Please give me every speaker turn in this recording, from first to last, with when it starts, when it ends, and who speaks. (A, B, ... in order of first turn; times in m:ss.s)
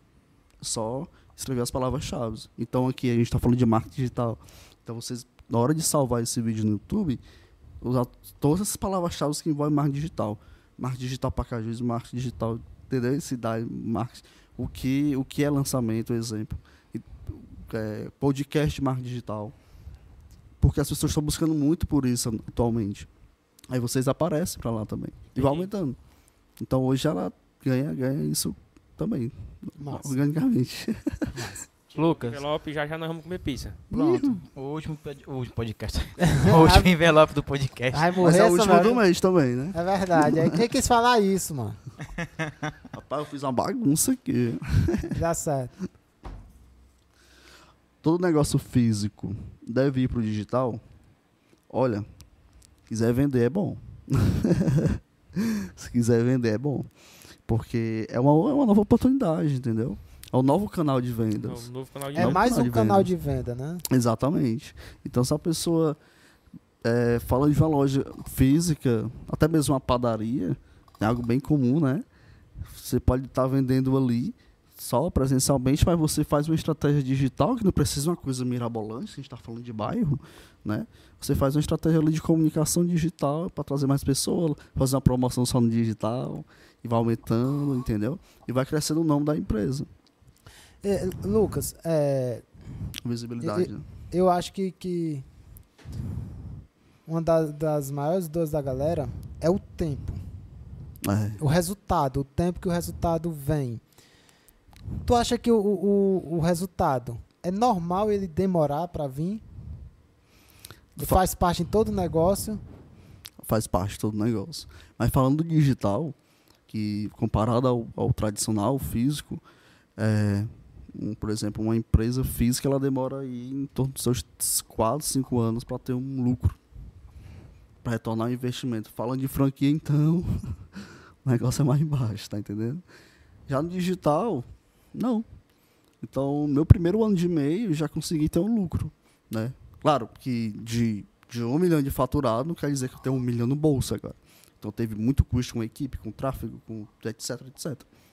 0:00.6-0:07.2 A
0:07.8-0:19.5 A
0:20.6-0:23.1 A
0:23.7-0:26.0 A
0:25.4-0:25.7 B
0:26.6-0:31.3 A
0:29.8-0:30.2 C
0:31.3-0:31.6 C
0:31.9-0:32.4 D
0:32.0-0:33.8 B
0:33.9-0:34.4 A
0:33.9-0:38.2 D
0:36.3-0:36.9 C
0:37.9-0:39.0 C
0:38.2-0:40.6 A
0:39.7-0:41.8 C
0:42.9-0:45.2 A
0:45.1-0:45.7 C
0:48.0-0:50.8 A
0:51.7-0:52.0 A
0:52.9-0:56.9 A
0:57.4-1:03.1 A
1:01.4-1:02.4 B
1:02.2-1:03.8 C
1:03.9-1:06.0 A
1:06.8-1:12.0 A
1:12.6-1:29.9 A
1:30.8-1:32.4 C
1:33.0-1:33.8 A
1:33.4-1:35.2 C
1:37.0-1:40.2 C
1:41.0-1:41.4 A
1:41.4-1:43.8 C
1:45.0-1:49.4 C
1:51.0-1:52.6 C
1:53.4-1:56.2 A
1:56.7-1:59.4 A
2:00.0-2:06.6 A
2:07.8-2:12.8 A
2:13.5-2:15.2 A
2:16.0-2:27.8 A